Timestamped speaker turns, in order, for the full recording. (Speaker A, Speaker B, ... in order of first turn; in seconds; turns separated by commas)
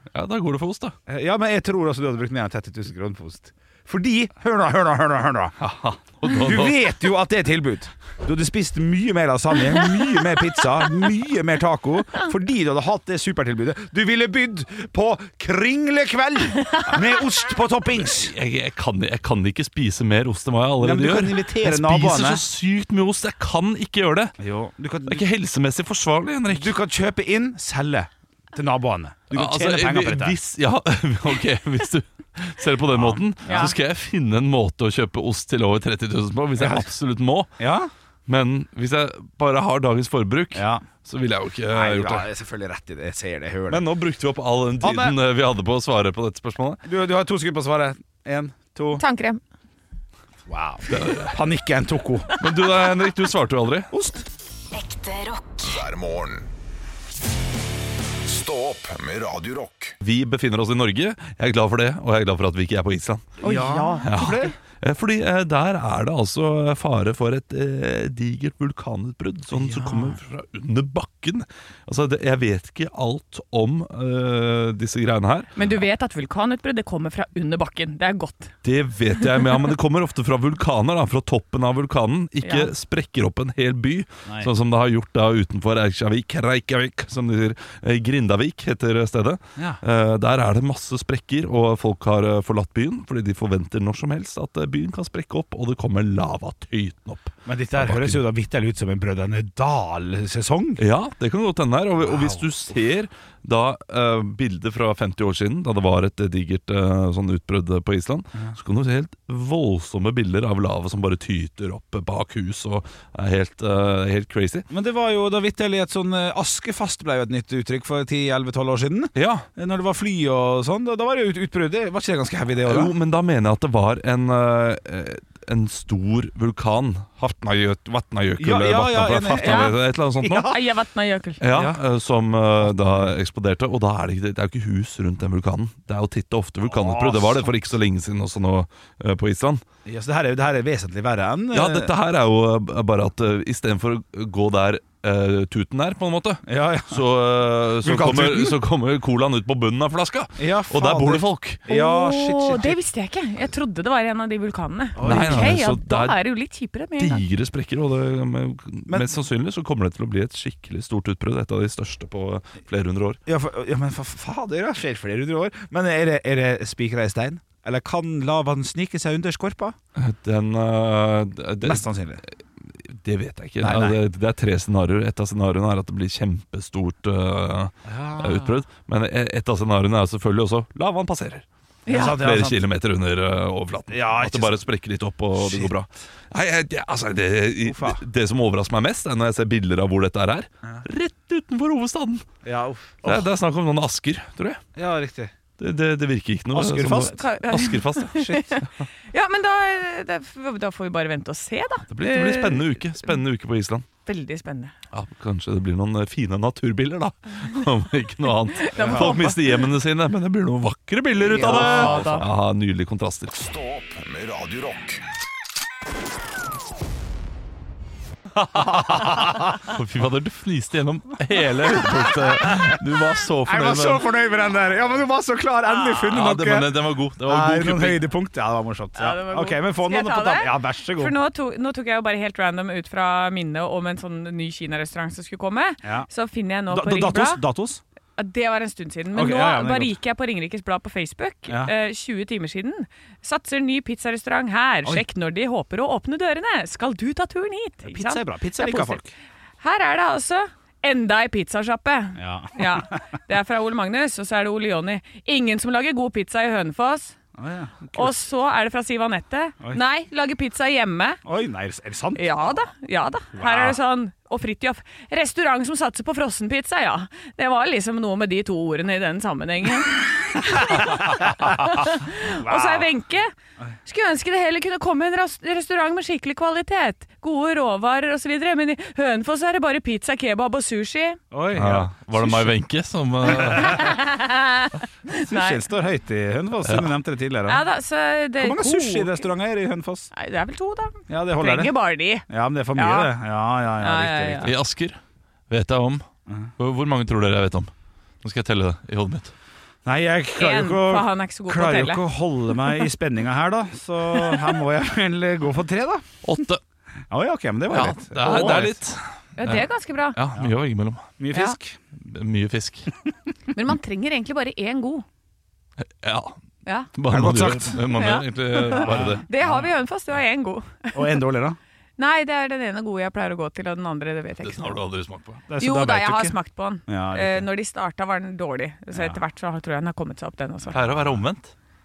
Speaker A: 0.1-0.9, Speaker B: 1.1-5.5, Speaker A: 5.6-6.9, Speaker B: 6.2-18.3, Speaker A: 18.1-24.4, Speaker B: 20.8-22.4, Speaker B: 24.4-25.2, Speaker A: 25.1-26.8, Speaker B: 26.5-30.4, Speaker A: 29.3-37.5, Speaker B: 32.9-33.7, Speaker C: 33.5-33.7, Speaker B: 36.6-36.9, Speaker B: 37.6-37.9, Speaker A: 38.3-42.3, Speaker B: 40.5-40.9, Speaker B: 41.7-43.9, Speaker A: 43.7-46.8, Speaker B: 44.8-45.2, Speaker B: 46.8-49.0, Speaker C: 49.0-49.4, Speaker B: 50.5-52.3, Speaker A: 50.9-51.4, Speaker A: 52.4-53.9, Speaker B: 53.9-54.3, Speaker D: 54.8-56.5, Speaker D: 58.2-60.0, Speaker A: 60.0-63.3, Speaker B: 63.4-64.5, Speaker C: 63.4-64.5, Speaker A: 64.0-75.5, Speaker B: 69.5-70.2, Speaker C: 75.6-78.5, Speaker A: 78.6-98.2, Speaker C: 82.4-82.7, Speaker B: 89.6-89.8, Speaker B: 97.5-100.8, Speaker A: 100.8-114.7, Speaker B: 102.0-102.4, Speaker B: 114.7-122.9, Speaker A: 119.2-119.5, Speaker A: 122.7-130.5, Speaker B: 128.4-130.6, Speaker C: 129.4-129.8, Speaker C: 130.4-131.4, Speaker A: 131.4-139.6, Speaker B: 131.5-131.8, Speaker B: 132.6-133.2, Speaker B: 136.7-137.5, Speaker B: 139.8-141.9, Speaker A: 141.5-151.6, Speaker B: 146.5-147.1, Speaker B: 147.8-148.6, Speaker B: 150.4-152.8, Speaker C: 151.7-157.2, Speaker B: 155.0-155.6, Speaker A: 155.1-156.2, Speaker A: 157.0-163.2, Speaker B: 163.3-169.8, Speaker A: 170.0-171.9, Speaker B: 171.6-172.2, Speaker A: 172.8-181.4, Speaker B: 173.6-174.0, Speaker B: 177.9-178.6, Speaker C: 181.9-182.2, Speaker B: 181.9-182.6, Speaker A: 182.0-192.2, Speaker B: 183.9-184.6, Speaker B: 185.4-185.7, Speaker B: 187.6-188.0, Speaker B: 192.4-193.3, Speaker A: 193.1-194.6, Speaker B: 194.8-195.3, Speaker A: 195.6-198.4, Speaker B: 196.5-197.3, Speaker C: 197.1-203.2, Speaker B: 198.2-198.6, Speaker A: 201.9-203.9, Speaker C: 204.1-204.7, Speaker A: 204.9-213.3, Speaker C: 208.6-209.7, Speaker B: 208.8-209.2, Speaker C: 211.3-212.2, Speaker B: 211.3-212.3, Speaker D: 213.3-215.0, Speaker A: 218.3-224.1, Speaker B: 218.9-219.5, Speaker B: 222.4-222.8, Speaker B: 223.5-231.2, Speaker A: 226.1-228.1, Speaker C: 229.0-237.4, Speaker B: 236.7-237.8, Speaker C: 238.2-249.0, Speaker B: 239.1-240.0, Speaker B: 241.5-241.7, Speaker B: 247.8-249.1, Speaker C: 249.6-257.2, Speaker B: 252.2-253.0, Speaker B: 257.4-258.2, Speaker C: 258.0-261.2, Speaker B: 261.2-262.3, Speaker C: 262.1-273.3, Speaker B: 263.4-263.8, Speaker B: 270.7-271.5, Speaker B: 272.4-272.9, Speaker C: 273.9-281.2, Speaker B: 281.3-281.9, Speaker A: 281.5-283.9, Speaker B: 283.3-283.8, Speaker C: 283.4-285.6, Speaker B: 285.2-287.6, Speaker A: 286.6-286.9, Speaker C: 287.5-289.3, Speaker B: 288.4-290.1, Speaker C: 290.1-293.1, Speaker B: 291.1-294.5, Speaker C: 293.8-294.5, Speaker A: 294.4-296.1, Speaker A: 296.6-297.7, Speaker A: 298.2-299.3, Speaker B: 299.9-306.1, Speaker C: 300.4-302.0, Speaker A: 306.2-306.6, Speaker B: 307.1-308.8, Speaker A: 307.7-311.1, Speaker C: 308.2-308.7, Speaker C: 309.4-310.2, Speaker B: 311.2-311.8, Speaker C: 311.3-311.6, Speaker A: 312.0-312.9, Speaker C: 313.5-315.1, Speaker A: 315.8-316.4, Speaker C: 316.7-316.9, Speaker A: 316.9-319.2, Speaker B: 317.1-317.8, Speaker C: 317.9-321.1, Speaker B: 318.7-319.7, Speaker B: 320.9-321.6, Speaker C: 322.0-324.8, Speaker A: 324.4-325.4, Speaker B: 325.5-327.5, Speaker C: 325.6-330.8, Speaker B: 328.9-329.2, Speaker A: 330.7-331.5